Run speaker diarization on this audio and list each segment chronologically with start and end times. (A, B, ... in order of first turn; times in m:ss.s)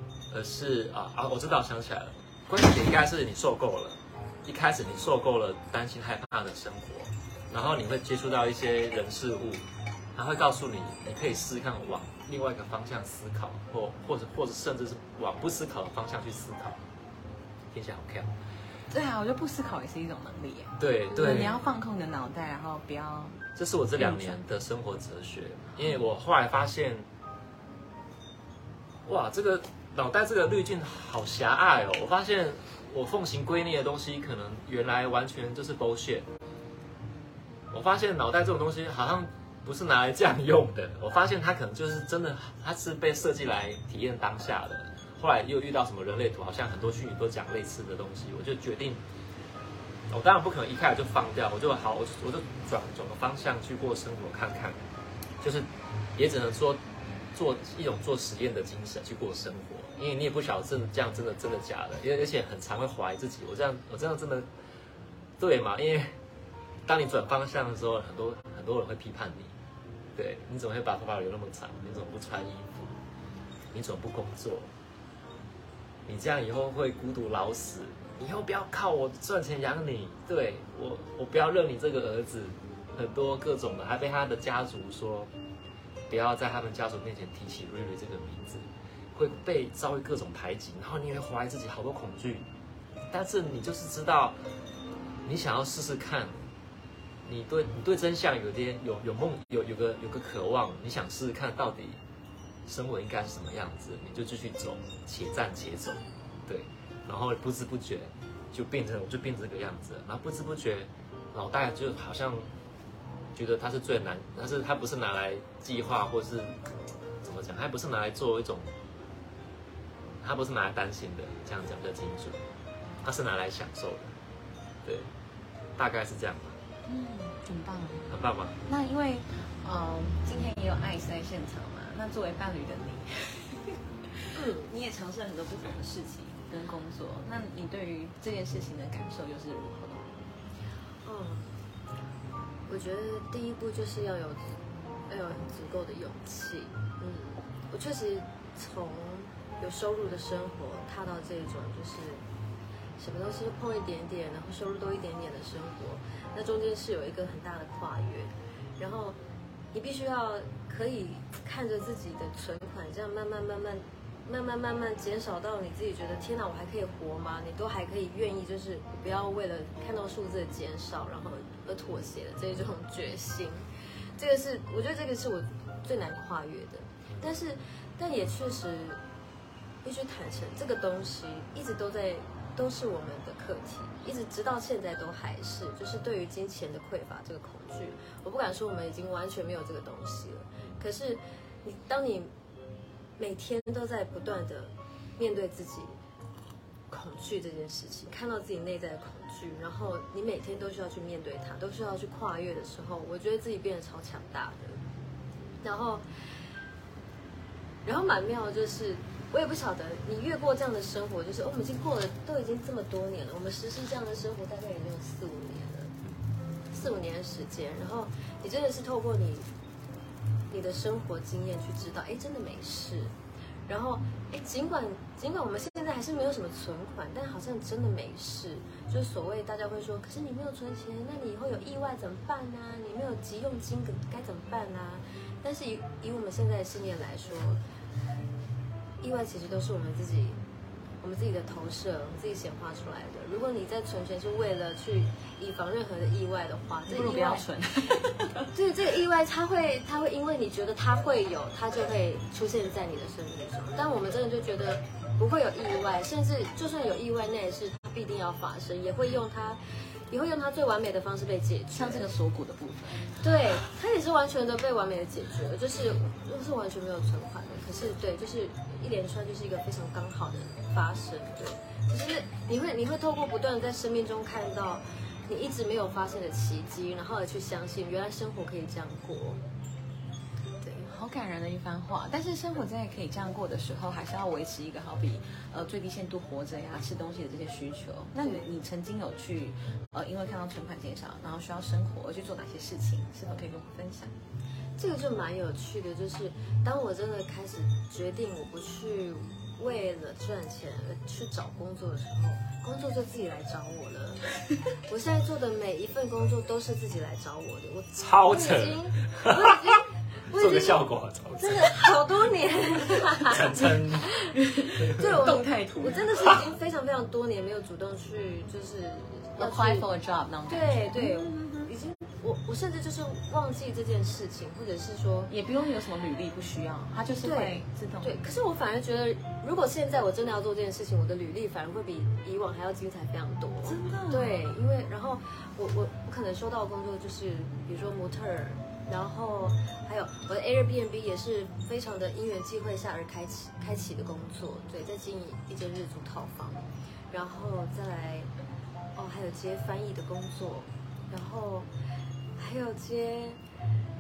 0:00.3-0:16.8 A
0:17.7-0:18.3 A
0:18.9-0:23.4 B
0:20.8-0:21.6 A
0:21.1-0:21.5 C
0:23.6-0:27.1 A
0:24.0-0:24.4 B
0:29.0-0:36.3 A
0:37.7-0:49.0 A
0:50.1-0:54.8 A
0:55.4-0:56.8 A
0:57.3-1:04.5 A
1:05.4-1:06.2 A
1:06.8-1:09.6 A
1:10.2-1:13.0 A
1:13.7-1:14.7 A
1:16.1-1:25.3 A
1:26.1-1:32.5 A
1:33.1-1:34.4 A
1:35.3-1:36.4 A
1:37.2-1:42.0 A
1:42.7-1:52.5 A
1:53.4-1:56.6 A
1:57.2-1:58.7 A
2:00.2-2:02.4 A
2:03.0-2:04.1 A
2:04.8-2:05.1 A
2:05.8-2:06.6 A
2:06.9-2:08.1 B
2:08.1-2:08.6 A
2:08.6-2:20.2 B
2:14.4-2:14.7 C
2:21.0-2:21.6 C
2:22.7-2:24.6 C
2:25.1-2:32.2 C
2:33.0-2:39.2 C
2:39.7-2:53.6 C
2:54.2-2:59.0 C
2:59.8-3:12.3 C
3:13.2-3:16.0 C
3:16.9-3:24.8 C
3:25.6-3:26.1 C
3:27.8-3:35.9 C
3:36.7-3:39.5 C
3:40.5-3:43.1 C
3:43.7-3:57.6 C
3:59.0-4:00.4 C
4:01.0-4:07.5 C
4:06.9-4:08.5 B
4:08.5-4:22.0 C
4:21.7-4:23.2 B
4:23.2-4:39.4 C
4:40.6-4:40.9 C
4:40.9-4:54.2 B
4:48.2-4:48.5 C
4:54.8-5:04.3 C
5:04.9-5:10.8 C
5:08.0-5:09.8 A
5:10.3-5:12.2 A
5:11.4-5:19.8 C
5:13.3-5:14.1 A
5:14.3-5:16.1 B
5:19.4-5:21.7 B
5:20.5-5:25.3 C
5:25.3-5:28.2 B
5:27.2-5:48.3 C
5:33.6-5:34.4 B
5:49.0-5:51.7 C
5:52.4-5:53.4 C